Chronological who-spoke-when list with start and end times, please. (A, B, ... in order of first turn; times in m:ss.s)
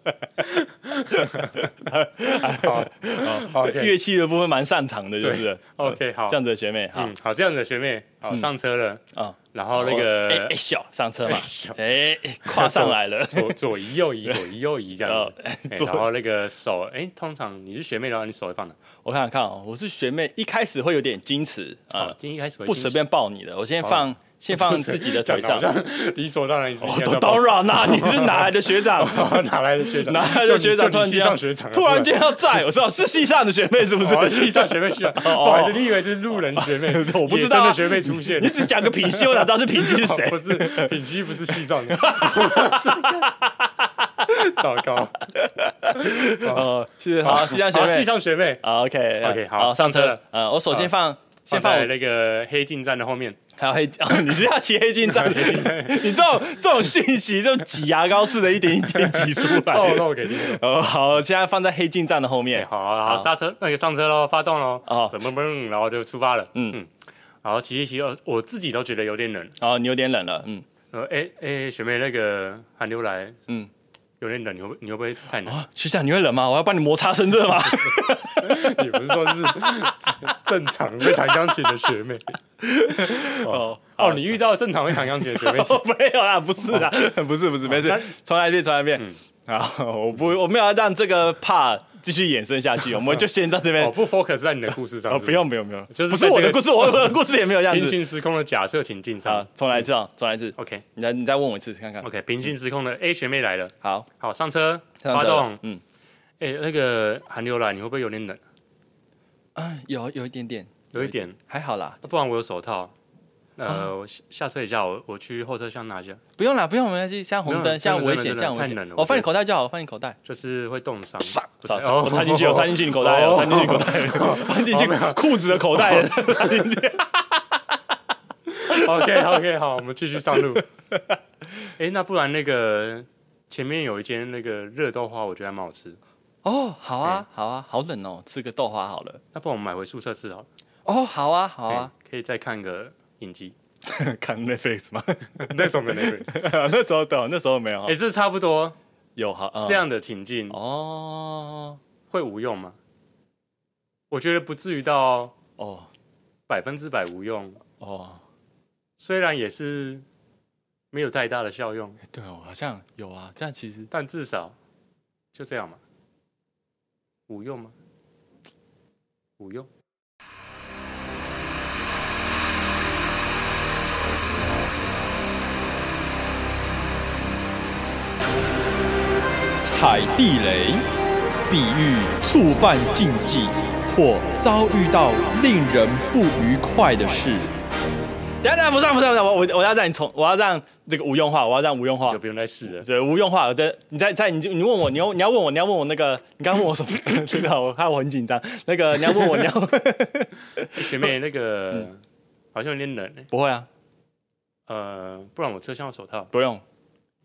0:00.4-0:01.6 A
0:01.4-0:07.1 B
0:02.5-0:03.9 A
0:05.2-0:06.4 A
0:06.9-0:09.0 A
0:09.1-0:13.6 B
0:09.5-0:10.5 A
0:11.2-0:11.8 A
0:12.4-0:18.8 A
0:15.0-0:16.1 B
0:19.0-0:25.7 B
0:22.0-0:23.0 A
0:23.8-0:32.6 A
0:26.8-0:35.9 B
0:34.0-0:43.3 A
0:36.5-0:44.4 B
0:44.3-0:45.2 A
0:45.3-0:51.9 B
0:46.0-0:46.7 A
0:47.2-0:48.6 A
0:49.2-0:50.9 A
0:51.5-0:53.4 A
0:53.6-1:03.3 B
0:55.0-0:56.2 A
0:58.9-1:00.6 A
1:02.5-1:06.9 A
1:04.9-1:05.2 B
1:06.5-1:06.8 B
1:07.4-1:09.5 A
1:09.6-1:10.6 B
1:10.9-1:13.4 A
1:14.2-1:15.6 A
1:15.4-1:20.1 B
1:17.8-1:22.3 A
1:21.0-1:21.6 B
1:22.6-1:34.0 B
1:23.0-1:25.8 A
1:27.7-1:28.1 A
1:33.8-1:39.8 A
1:35.1-1:38.0 B
1:39.2-1:42.1 B
1:40.6-1:40.8 A
1:42.0-1:45.6 A
1:43.8-1:44.1 B
1:45.0-1:45.8 B
1:46.4-1:48.4 A
1:49.6-1:52.0 B
1:50.9-1:51.4 A
1:52.0-1:52.9 A
1:53.6-1:56.2 A
1:56.4-2:00.2 B
1:57.4-1:59.3 A
2:00.2-2:06.5 A
2:01.2-2:07.6 B
2:08.5-2:10.6 A
2:11.8-2:16.0 A
2:16.4-2:19.2 B
2:19.3-2:20.5 A
2:20.8-2:21.9 B
2:21.7-2:23.5 A
2:23.8-2:28.0 B
2:25.4-2:26.4 A
2:27.8-2:28.8 A
2:29.2-2:29.9 B
2:29.6-2:30.6 A
2:30.5-2:31.8 B
2:32.1-2:32.8 A
2:34.1-2:35.3 A
2:35.6-2:35.9 B
2:36.5-2:37.6 A
2:37.8-2:38.2 B
2:39.0-2:40.0 A
2:40.9-2:42.0 A
2:42.1-2:43.9 B
2:43.9-2:44.6 A
2:45.3-2:45.8 A
2:47.3-2:47.7 A
2:49.4-2:49.7 A
2:59.5-3:00.8 C
3:01.5-3:07.5 C
3:08.4-3:21.1 B
3:12.0-3:12.8 A
3:20.7-3:22.0 A
3:22.5-3:23.3 A
3:23.3-3:23.7 B
3:24.7-3:26.3 A
3:26.3-3:26.6 B